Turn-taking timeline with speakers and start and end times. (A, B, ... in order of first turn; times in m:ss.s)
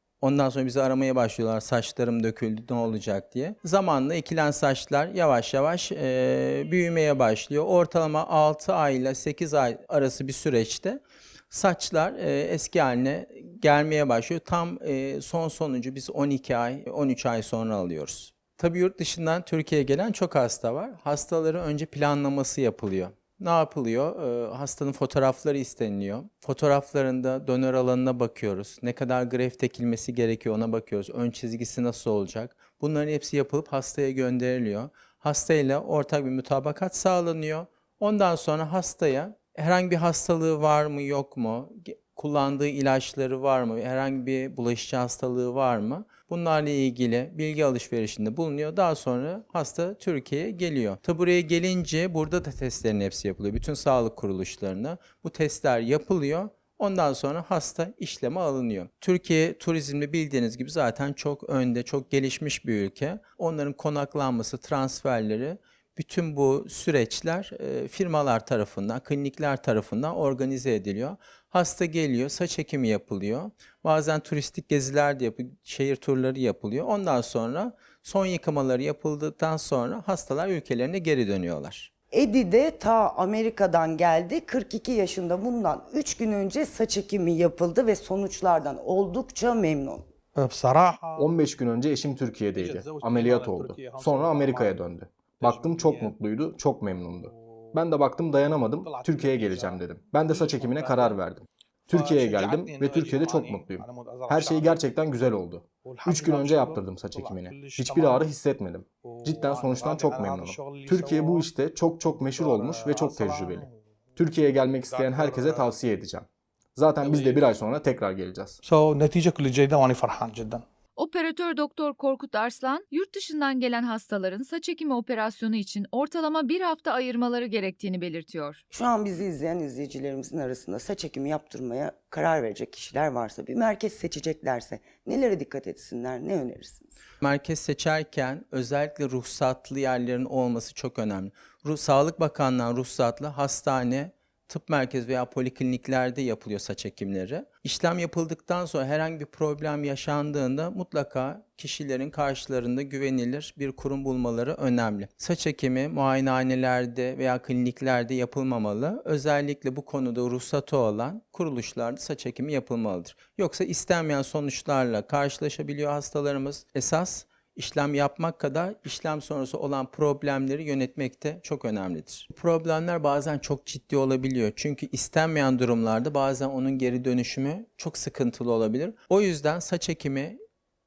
0:00.2-1:21.9 A
1:22.1-1:30.0 B
1:30.4-1:31.4 C
1:31.2-1:58.6 D
1:32.5-1:34.8 C
1:35.4-1:36.2 C
1:37.2-1:37.8 C
1:38.4-1:41.2 C
1:41.9-1:44.8 C
1:45.8-1:48.3 C
1:49.0-1:51.5 C
1:52.1-1:53.8 C
1:54.8-1:55.7 C
1:57.0-1:57.5 C
1:58.6-2:00.6 C
2:01.0-2:08.6 E
2:08.7-2:16.9 B
2:17.2-3:00.4 A